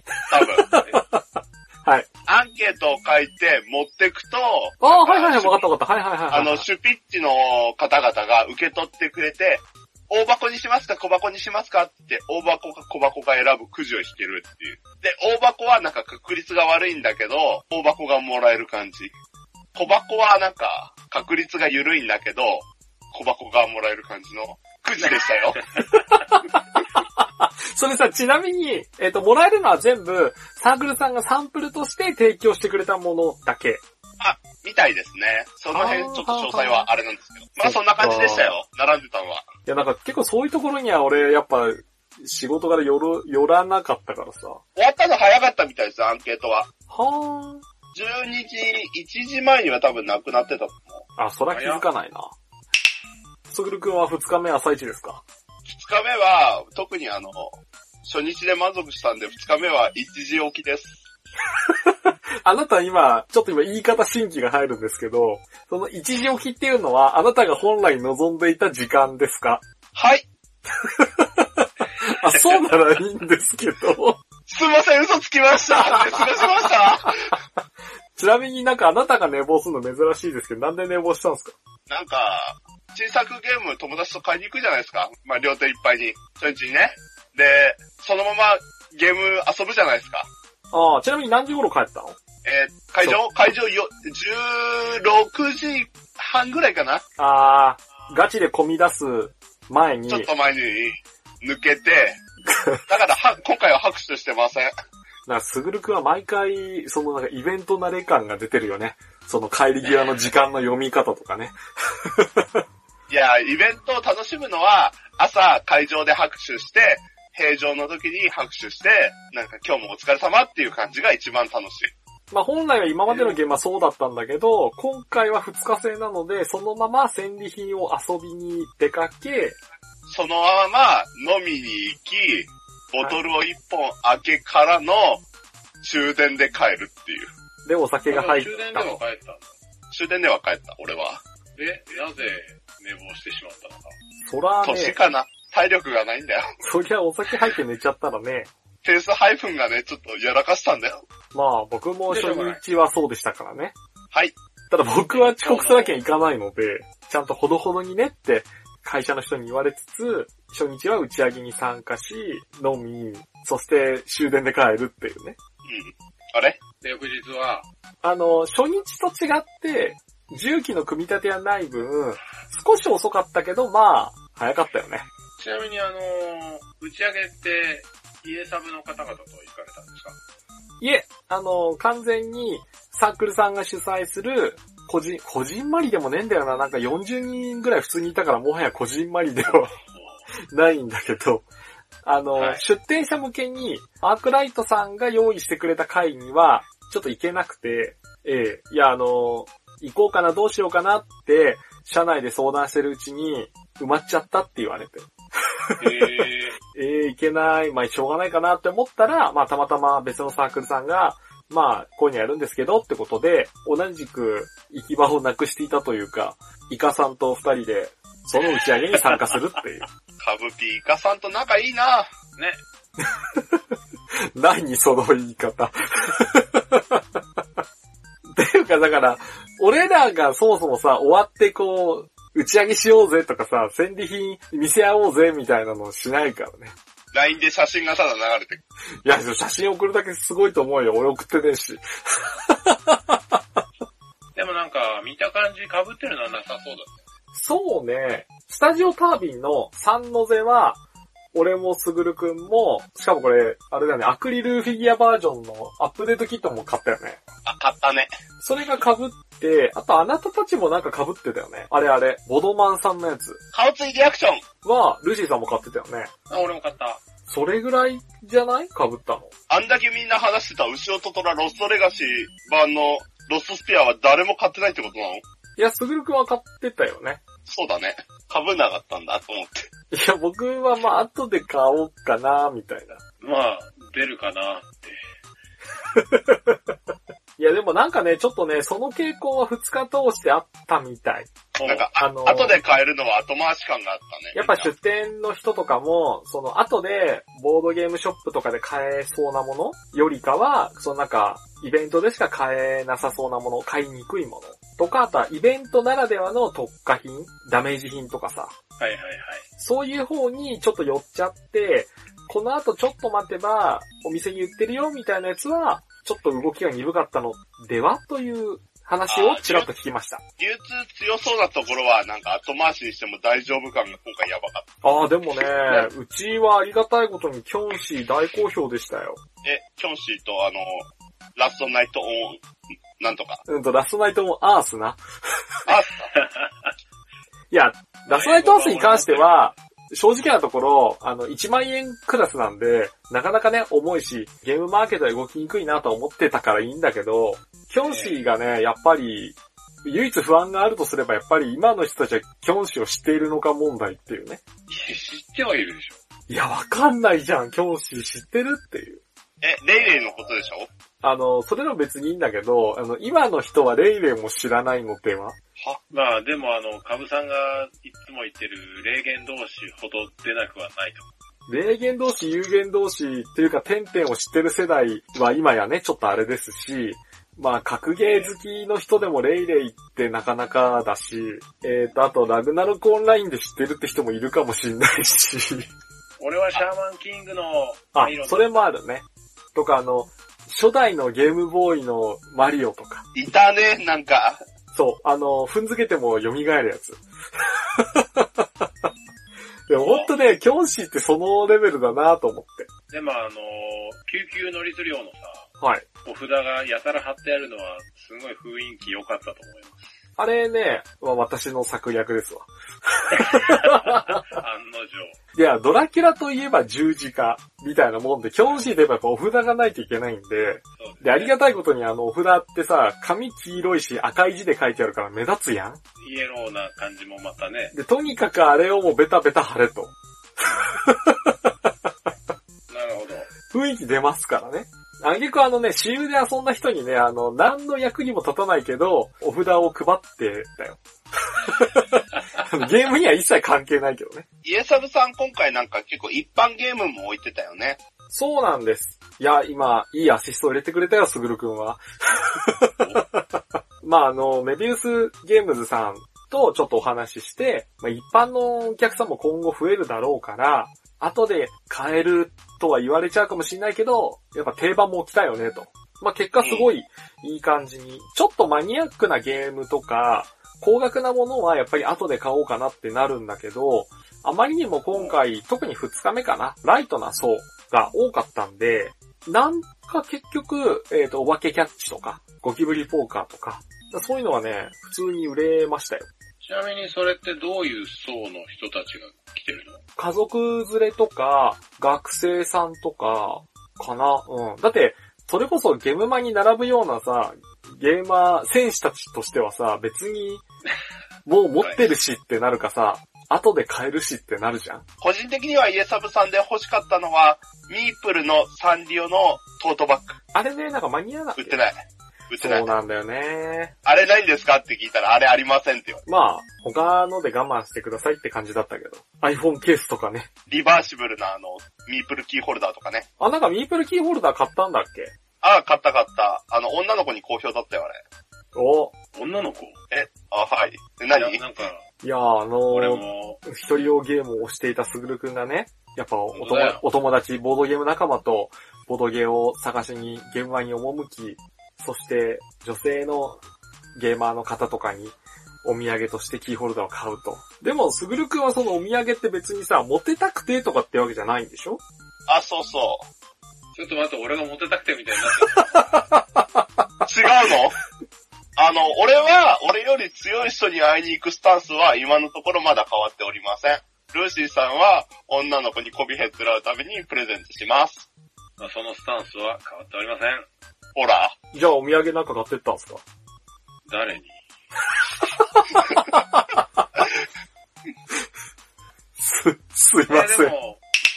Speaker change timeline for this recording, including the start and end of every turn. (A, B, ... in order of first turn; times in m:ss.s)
0:00.3-0:00.7 A
0:00.4-0:02.1 B
0:02.3-0:05.7 A
0:04.8-0:06.6 B
0:06.3-0:19.1 A
0:19.7-0:25.6 A
0:26.0-0:33.8 B
0:34.2-0:39.5 A
0:35.7-0:36.9 B
0:37.6-0:38.6 B
0:39.7-0:44.6 B
0:44.8-0:46.7 A
0:46.9-0:47.6 B
0:47.9-0:51.0 A
0:51.2-0:52.3 B
0:51.5-0:51.8 C
0:53.5-0:55.2 B
0:55.7-1:01.0 A
1:01.7-1:09.6 B
1:10.0-1:10.3 A
1:10.8-1:14.2 B
1:14.5-1:17.3 A
1:15.7-1:16.7 B
1:18.2-1:21.6 B
1:21.9-1:30.3 A
1:30.7-1:32.2 B
1:32.4-1:37.0 A
1:37.2-1:40.3 B
1:40.1-1:42.2 A
1:42.5-1:42.8 B
1:42.9-1:44.7 A
1:45.2-1:52.6 B
1:53.1-2:01.9 A
2:02.3-2:09.6 B
2:10.1-2:15.2 A
2:15.8-2:17.3 A
2:17.7-2:19.0 B
2:18.1-2:19.5 C
2:19.9-2:21.2 A
2:21.6-2:24.0 C
2:24.2-2:25.0 B
2:24.6-2:26.4 A
2:26.6-2:28.5 B
2:28.8-2:31.0 A
2:31.3-2:33.7 B
2:32.1-2:32.6 C
2:34.7-2:45.4 B
2:35.1-2:36.0 C
2:45.6-2:46.6 A
2:46.8-2:47.7 C
2:48.0-2:55.0 B
2:55.4-3:00.2 C
3:00.8-3:09.7 B
3:09.9-3:10.2 C
3:10.5-3:11.5 B
3:12.0-3:25.1 B
3:12.4-3:12.6 C
3:25.6-3:39.9 B
3:25.8-3:26.6 C
3:40.2-3:42.1 A
3:43.0-3:43.6 B
3:44.4-3:47.0 B
3:48.4-3:56.7 B
3:57.1-3:58.6 A
3:59.0-4:03.4 B
4:04.4-4:07.1 C
4:07.3-4:10.8 B
4:11.3-4:17.2 B
4:17.4-4:18.1 A
4:18.4-4:23.4 B
4:23.5-4:24.4 A
4:24.6-4:26.1 B
4:26.3-4:27.0 C
4:27.3-4:29.3 B
4:29.5-4:35.2 A
4:35.6-4:37.2 B
4:37.5-4:39.7 A
4:39.9-4:43.0 B
4:43.2-4:45.0 C
4:45.9-4:46.6 B
4:47.4-4:51.3 B
4:51.6-4:51.9 C
4:51.6-4:54.7 A
4:52.0-4:52.6 B
4:54.3-5:08.5 B
5:08.8-5:09.4 C
5:09.6-5:20.2 B
5:19.1-5:19.7 A
5:20.4-5:24.8 A
5:24.8-5:29.2 B
5:29.4-5:32.4 A
5:33.0-5:33.4 A
5:33.5-5:35.0 B
5:35.7-5:36.1 A
5:36.1-5:36.7 C
5:37.5-5:54.4 B
5:38.1-5:39.5 C
5:47.8-5:48.2 C
5:54.7-5:56.0 C
5:56.3-5:59.0 B
5:59.4-6:00.7 A
5:59.9-6:00.3 C
6:01.0-6:05.4 B
6:05.9-6:11.1 C
6:11.5-6:25.7 B
6:18.0-6:18.3 C
6:26.2-6:28.6 C
6:27.9-6:33.0 B
6:33.1-6:34.4 A
6:34.7-6:38.7 B
6:39.7-6:42.7 B
6:39.8-6:40.1 C
6:42.9-6:45.5 C
6:45.6-6:45.8 B
6:46.0-6:49.9 C
6:50.2-6:54.4 B
6:53.2-6:55.2 C
6:55.4-7:05.8 B
7:00.8-7:01.4 C
7:06.0-7:07.8 C
7:07.7-7:11.5 B
7:12.7-7:13.3 C
7:13.5-7:24.2 B
7:24.4-7:27.8 A
7:28.1-8:06.1 B
7:46.4-7:46.7 A
8:06.4-8:09.8 C
8:10.0-8:20.4 B
8:21.2-8:24.8 B
8:21.6-8:21.9 C
8:25.0-8:30.2 A
8:30.3-8:31.6 B
8:31.4-8:32.7 A
8:32.4-8:33.8 B
8:33.8-8:36.0 A
8:36.1-8:40.3 B
8:40.5-8:43.1 A
8:43.2-8:45.1 B
8:45.4-8:48.0 A
8:48.5-8:49.0 B
8:49.1-8:49.8 C
8:49.9-8:51.4 A
8:51.1-8:51.9 C
8:52.0-9:03.4 B
8:52.7-8:53.4 C
8:56.3-8:56.8 C
9:04.0-9:11.8 B
9:12.3-9:13.0 A
9:13.7-9:16.1 C
9:15.8-9:16.6 B
9:17.0-9:17.8 A
9:18.6-9:28.1 A
9:28.6-9:30.5 C
9:31.0-9:31.4 A
9:31.5-9:33.0 B
9:33.9-9:34.4 C
9:35.5-9:36.8 B
9:39.2-9:40.5 B
9:40.1-9:40.8 C